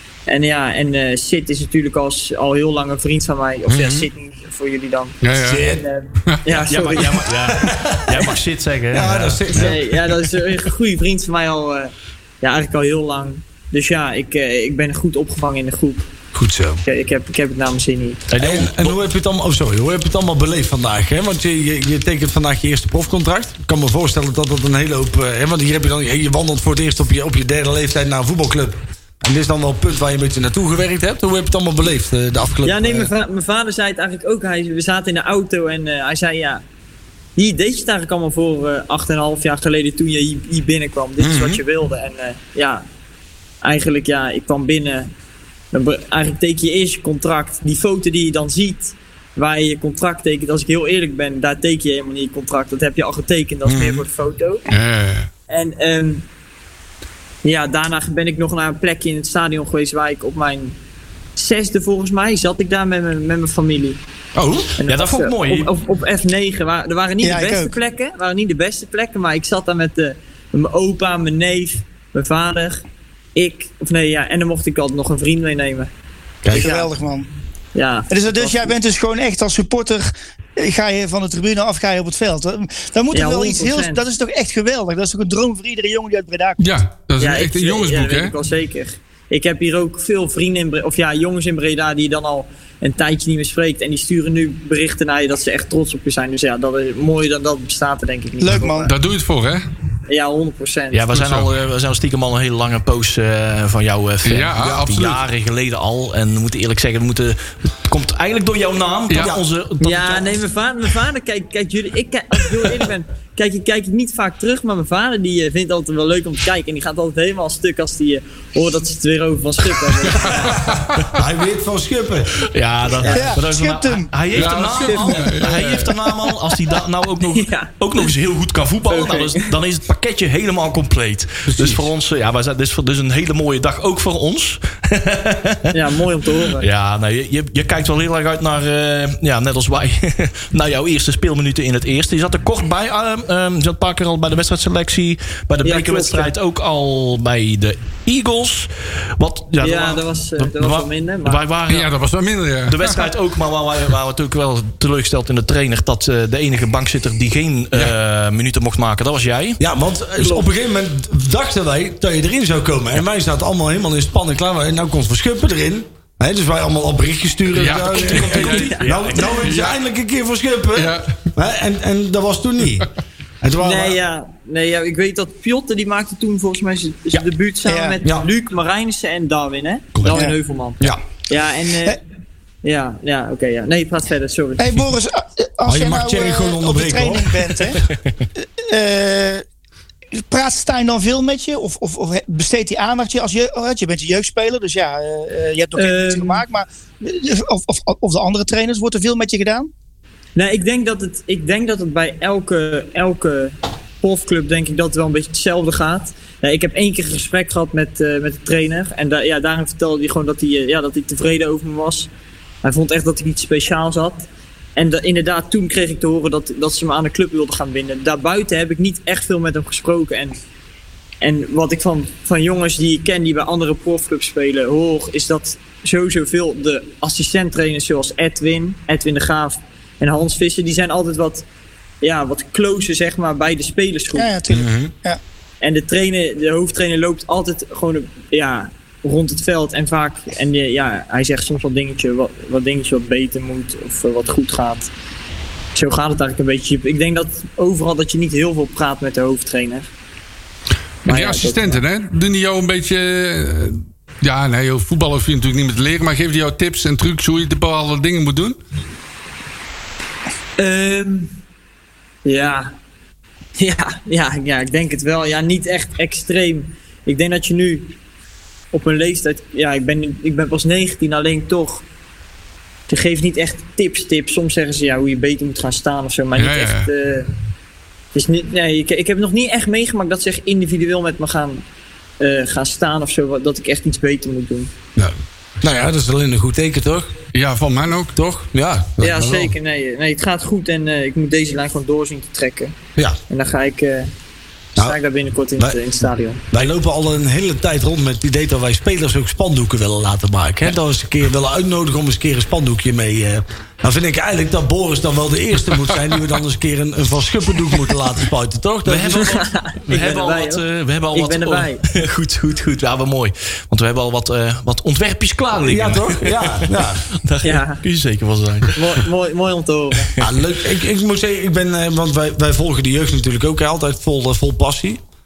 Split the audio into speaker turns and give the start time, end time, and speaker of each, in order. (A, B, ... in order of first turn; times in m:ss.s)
0:00.3-0:07.2 A
0:03.7-0:04.1 B
0:05.2-0:05.7 C
0:05.4-0:05.8 B
0:06.2-0:06.6 C
0:06.7-0:09.7 D
0:07.5-0:08.3 B
0:08.9-0:09.8 B
0:09.5-0:16.1 A
0:16.3-0:16.8 B
0:16.8-0:18.2 A
0:18.3-0:19.0 D
0:18.4-0:33.1 B
0:32.6-0:36.6 A
0:37.4-0:42.8 A
0:41.2-0:41.6 B
0:43.6-0:45.1 A
0:45.7-0:54.6 A
0:53.7-0:54.0 B
0:54.7-0:55.3 C
0:55.5-0:56.2 A
0:57.4-1:00.8 A
1:01.4-1:04.0 A
1:04.3-1:04.7 B
1:04.8-1:12.8 A
1:04.8-1:05.7 D
1:07.2-1:07.7 E
1:13.3-1:15.9 A
1:16.4-1:16.7 B
1:16.5-1:17.3 E
1:16.5-1:16.9 A
1:17.7-1:18.7 A
1:18.1-1:26.7 E
1:23.1-1:24.0 A
1:26.6-1:28.3 C
1:27.2-1:38.9 A
1:38.4-1:38.9 E
1:38.8-1:39.6 C
1:40.1-1:41.0 A
1:40.9-1:50.4 D
1:41.1-1:41.5 C
1:44.2-1:45.2 C
1:49.1-1:49.3 C
1:49.8-2:00.5 A
2:00.2-2:01.0 C
2:01.1-2:02.4 B
2:02.4-2:15.7 D
2:03.0-2:04.1 E
2:04.3-2:06.1 C
2:04.9-2:05.2 A
2:07.3-2:07.7 A
2:08.9-2:09.5 A
2:15.7-2:16.7 A
2:16.6-2:31.9 D
2:25.6-2:26.3 A
2:29.6-2:31.4 A
2:31.7-2:33.0 C
2:32.6-2:39.6 D
2:39.6-2:52.9 B
2:47.5-2:49.7 C
2:47.7-2:49.6 D
2:48.5-2:48.8 A
2:50.7-2:51.1 C
2:53.4-2:54.0 B
2:53.6-3:02.0 A
2:57.6-2:58.0 E
2:58.0-2:58.3 B
3:00.1-3:00.4 E
3:02.6-3:04.7 A
3:04.6-3:07.8 E
3:05.6-3:07.7 B
3:08.4-3:09.4 E
3:10.1-3:19.7 E
3:15.8-3:16.4 A
3:20.4-3:32.1 A
3:32.6-3:40.4 A
3:41.2-3:51.4 A
3:52.0-3:54.3 A
3:54.2-3:55.2 E
3:54.5-3:54.9 B
3:55.6-4:04.9 A
4:05.7-4:09.9 A
4:11.0-4:11.8 A
4:11.0-4:18.6 C
4:20.6-4:21.3 A
4:22.2-4:22.7 A
4:23.6-4:27.9 A
4:28.7-4:31.8 A
4:32.9-4:37.3 A
4:36.4-4:36.9 C
4:38.1-4:41.6 A
4:42.2-4:44.7 A
4:45.0-4:47.1 B
4:47.3-4:48.1 C
4:48.2-4:49.5 B
4:49.0-4:52.7 A
4:53.3-4:54.1 A
4:54.8-4:56.4 A
4:56.5-5:09.3 B
5:08.8-5:19.0 D
5:09.2-5:10.6 A
5:11.1-5:11.8 A
5:15.6-5:17.0 B
5:17.4-5:17.8 A
5:18.7-5:20.1 A
5:20.2-5:25.0 B